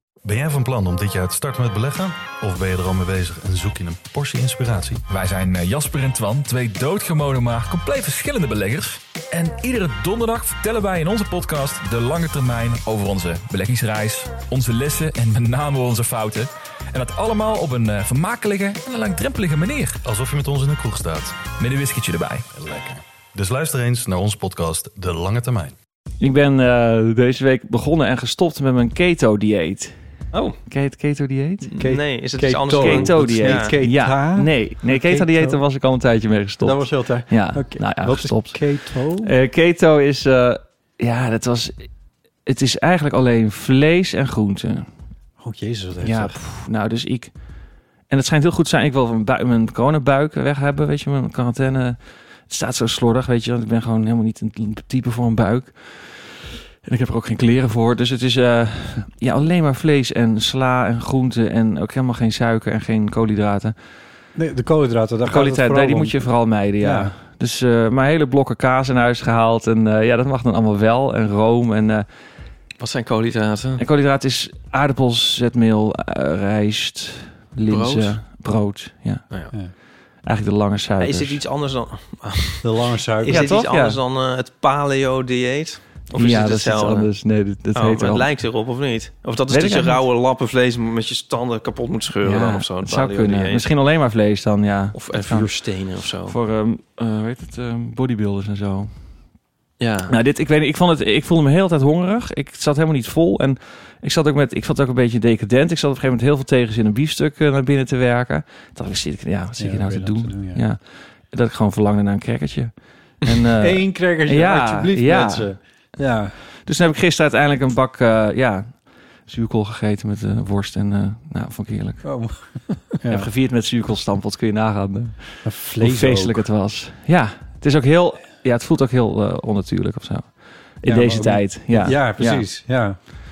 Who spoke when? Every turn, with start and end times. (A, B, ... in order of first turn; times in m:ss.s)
0:00.2-0:05.0 A
0:05.1-0:20.0 B
0:20.0-0:21.5 A
0:21.5-0:22.5 B
0:22.5-0:25.7 A
0:26.2-0:29.9 C
0:30.3-0:30.6 D
0:30.6-0:31.7 C
0:31.7-0:33.7 D
0:31.8-0:35.6 E
0:32.8-0:41.8 C
0:36.6-0:39.3 E
0:42.4-0:44.9 C
0:45.4-0:46.4 E
0:46.0-0:47.3 C
0:48.1-1:03.7 C
1:04.3-1:06.3 E
1:05.3-1:12.1 C
1:06.8-1:07.1 E
1:12.8-1:13.8 D
1:13.8-1:19.2 C
1:17.7-1:18.2 D
1:20.2-1:21.4 C
1:21.0-1:27.1 D
1:22.6-1:23.4 E
1:23.3-1:24.0 C
1:26.1-1:28.3 C
1:27.7-1:33.7 D
1:29.5-1:30.0 C
1:32.2-1:35.5 C
1:34.9-1:36.3 D
1:36.2-1:38.9 C
1:39.8-1:40.1 D
1:40.1-1:55.5 C
1:49.6-1:50.6 E
1:53.6-1:56.4 E
1:56.6-2:02.0 C
2:02.0-2:03.3 E
2:03.0-2:12.4 C
2:05.4-2:06.4 E
2:10.8-2:13.0 E